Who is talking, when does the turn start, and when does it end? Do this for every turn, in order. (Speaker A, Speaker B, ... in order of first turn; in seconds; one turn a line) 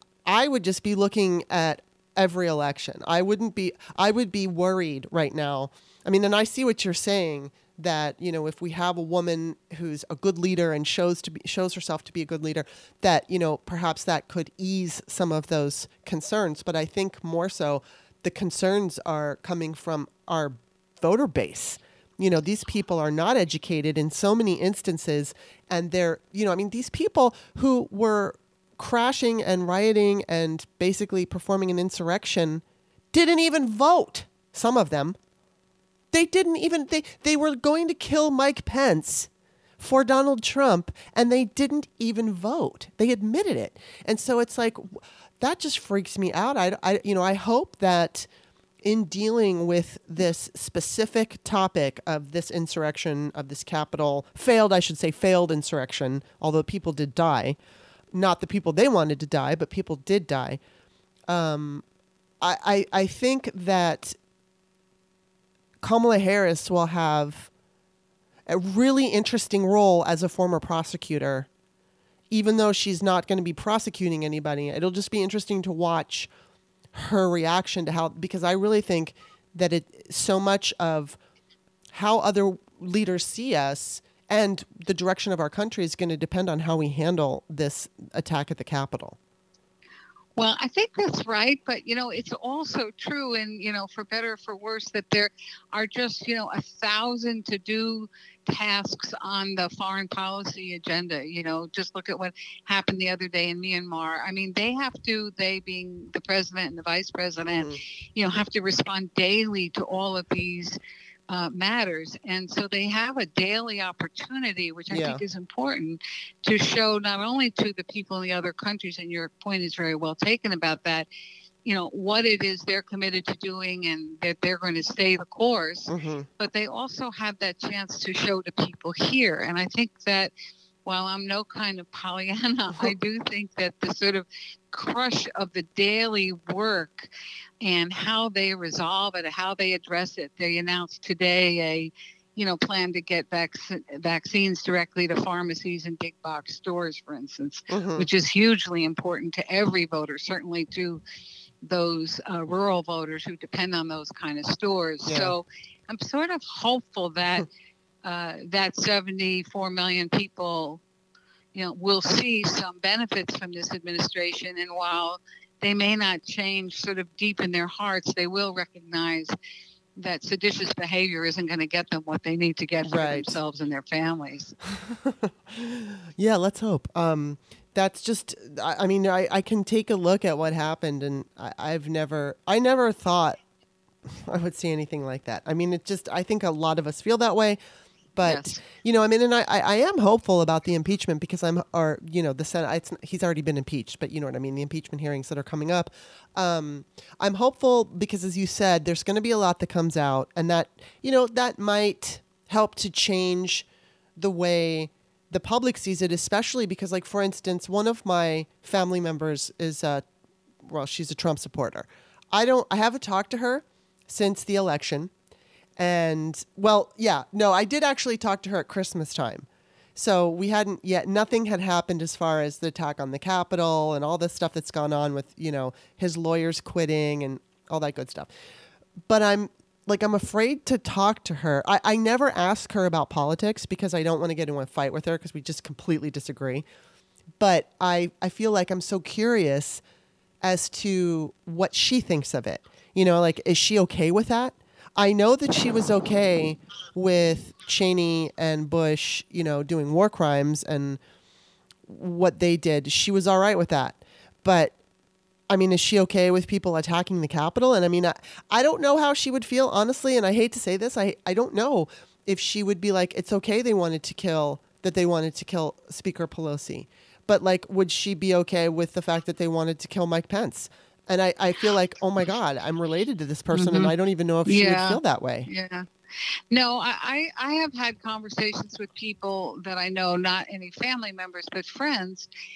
Speaker A: 0.2-35.2
Speaker A: 36.1-48.3
Speaker A: 48.8-57.6
Speaker A: 58.1-60.6
Speaker A: 61.3-61.8
Speaker A: 62.4-64.2
Speaker A: 65.8-67.5
Speaker A: 68.5-71.5
Speaker A: 72.3-76.3
Speaker A: 76.9-81.2
Speaker A: 81.9-89.2
Speaker B: 90.4-110.8
Speaker B: 111.3-121.1
Speaker A: 114.9-115.2
Speaker B: 121.7-130.3
Speaker A: 125.9-126.3
Speaker B: 130.8-137.1
Speaker B: 137.6-151.0
Speaker A: 147.7-148.1
Speaker B: 151.6-157.5
Speaker A: 155.1-155.3
Speaker B: 158.0-160.8
Speaker B: 161.5-169.3
Speaker B: 170.0-174.6
Speaker A: 172.8-173.4
Speaker A: 174.7-183.4
Speaker A: 184.1-187.6
Speaker A: 188.2-203.7
Speaker B: 188.2-188.6
Speaker A: 204.2-210.0
Speaker A: 210.7-215.1
Speaker A: 215.8-228.3
Speaker A: 229.1-236.7
Speaker A: 237.4-239.8
Speaker A: 240.4-251.0
Speaker A: 251.9-254.8
Speaker A: 255.5-275.5
Speaker B: 273.5-273.9
Speaker B: 274.5-275.9
Speaker B: 276.5-282.3